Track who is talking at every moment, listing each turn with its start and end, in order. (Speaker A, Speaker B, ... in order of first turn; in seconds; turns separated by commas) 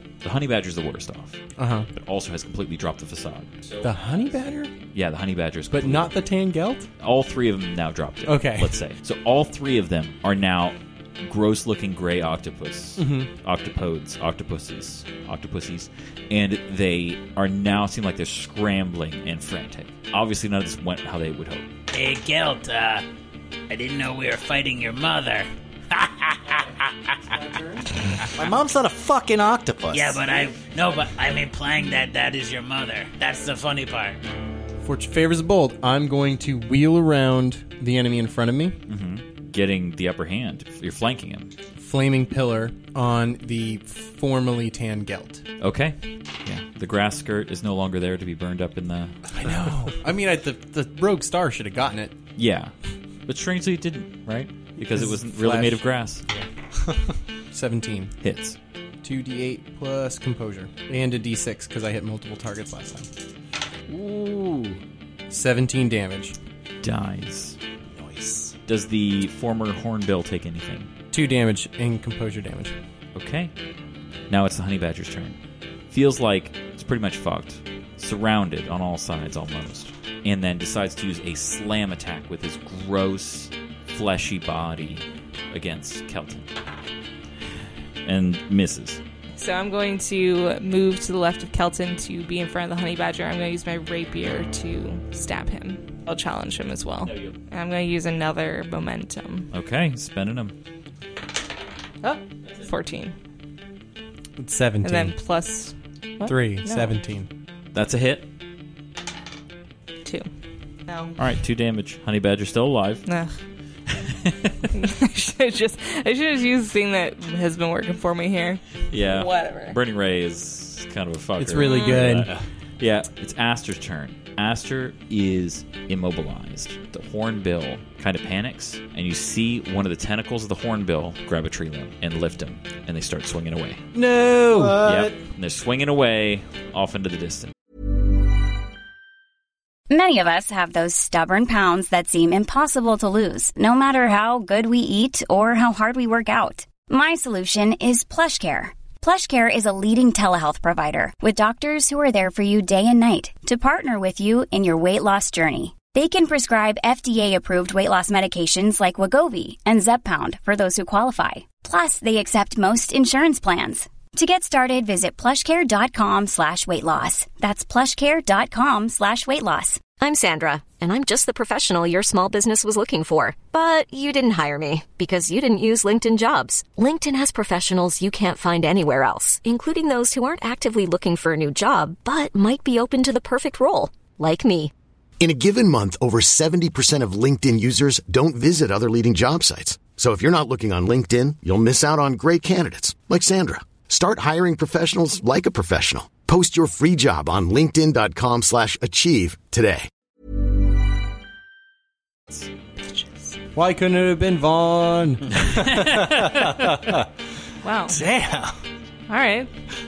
Speaker A: 0.2-1.4, Speaker B: 1.6-1.9, Speaker A: 1.9-3.9, Speaker B: 3.8-4.7, Speaker A: 4.9-6.2, Speaker B: 5.7-6.9, Speaker A: 7.0-21.7, Speaker B: 8.2-8.8, Speaker B: 13.0-13.3, Speaker C: 21.9-23.0, Speaker C: 23.7-26.7, Speaker B: 27.3-27.9, Speaker D: 28.3-30.2, Speaker C: 29.9-34.2, Speaker B: 34.8-38.8, Speaker A: 38.9-41.5, Speaker B: 41.8-45.4, Speaker A: 45.6-49.1, Speaker B: 49.4-52.1, Speaker A: 52.4-52.7, Speaker A: 53.3-56.2, Speaker B: 54.8-55.8, Speaker B: 57.5-58.1, Speaker A: 58.2-58.6, Speaker B: 59.0-63.1, Speaker A: 63.9-64.2, Speaker B: 65.3-66.3, Speaker A: 66.8-67.6, Speaker D: 67.9-68.5, Speaker A: 68.7-70.9, Speaker B: 71.1-72.7, Speaker A: 73.1-73.5, Speaker A: 74.3-75.3, Speaker A: 75.9-86.5, Speaker A: 88.0-89.0, Speaker E: 89.3-99.5, Speaker A: 97.0-97.3, Speaker A: 99.5-100.5, Speaker E: 102.0-103.1, Speaker B: 104.4-105.2, Speaker E: 104.8-107.0, Speaker B: 106.2-107.3, Speaker A: 107.7-108.3, Speaker E: 110.9-111.2, Speaker A: 111.2-113.0, Speaker E: 113.0-113.3, Speaker A: 113.9-114.5, Speaker E: 114.7-119.8, Speaker A: 118.9-133.8, Speaker B: 121.4-122.3, Speaker E: 121.6-122.1, Speaker D: 133.9-135.1, Speaker B: 134.5-134.8, Speaker A: 134.8-137.5, Speaker F: 139.9-169.8, Speaker G: 170.0-184.7, Speaker H: 185.2-199.9, Speaker E: 202.8-203.3, Speaker B: 203.5-205.3, Speaker D: 205.6-207.0, Speaker E: 207.6-208.0, Speaker D: 207.9-208.6, Speaker E: 209.1-209.5